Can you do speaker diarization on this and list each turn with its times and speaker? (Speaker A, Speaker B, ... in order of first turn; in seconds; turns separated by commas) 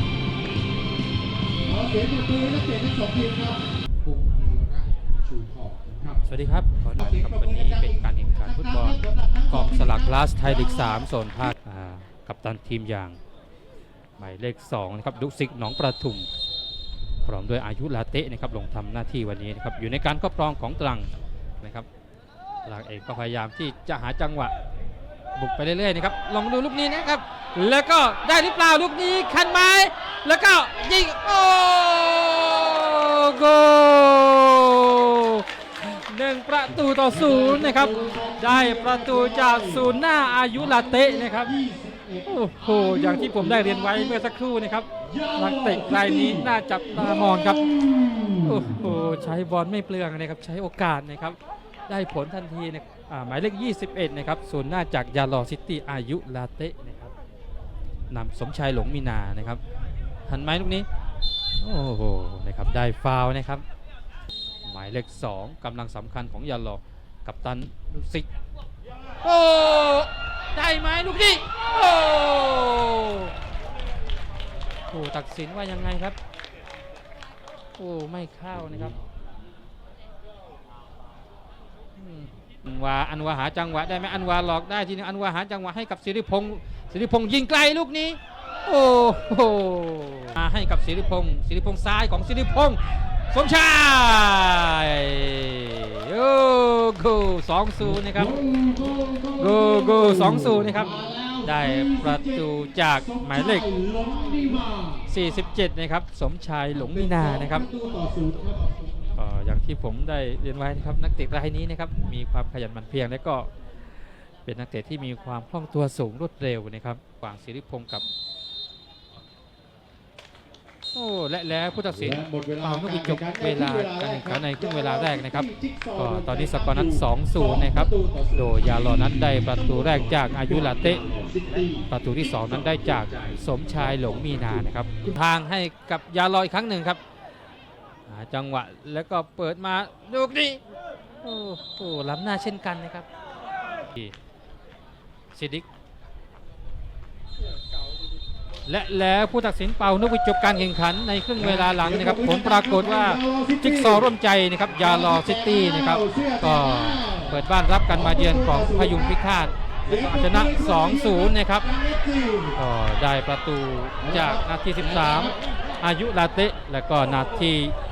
Speaker A: 1.7-3.6, Speaker B: 4.0-6.2, Speaker C: 6.2-13.2, Speaker A: 7.0-11.1, Speaker C: 14.2-16.3, Speaker C: 17.3-21.9, Speaker C: 22.6-24.5, Speaker C: 25.4-41.5, Speaker A: 37.1-39.8, Speaker B: 38.1-38.5, Speaker A: 40.5-44.2, Speaker C: 42.3-47.8, Speaker B: 45.1-45.4, Speaker A: 45.1-46.4, Speaker A: 47.0-47.6, Speaker B: 48.0-48.4, Speaker C: 48.4-51.4, Speaker C: 51.9-57.1, Speaker C: 58.1-59.6, Speaker C: 60.3-60.9, Speaker C: 61.6-63.6, Speaker C: 64.7-68.3, Speaker C: 69.2-73.3, Speaker C: 74.9-76.2, Speaker C: 77.8-79.0, Speaker C: 82.0-98.5, Speaker B: 98.4-99.2, Speaker A: 98.9-102.4, Speaker C: 99.3-103.7, Speaker B: 100.7-101.1, Speaker A: 103.0-105.0, Speaker C: 105.1-107.7, Speaker A: 106.8-109.0, Speaker C: 109.2-113.5, Speaker C: 114.5-118.0, Speaker C: 120.9-131.1, Speaker A: 122.1-128.6, Speaker B: 129.7-134.7, Speaker C: 131.9-137.0, Speaker C: 138.1-140.6, Speaker C: 141.2-143.1, Speaker C: 145.3-145.7, Speaker C: 148.7-161.7, Speaker A: 151.4-154.1, Speaker A: 154.8-157.4, Speaker A: 157.9-159.2, Speaker A: 159.9-162.6, Speaker C: 162.6-167.7, Speaker A: 164.1-165.4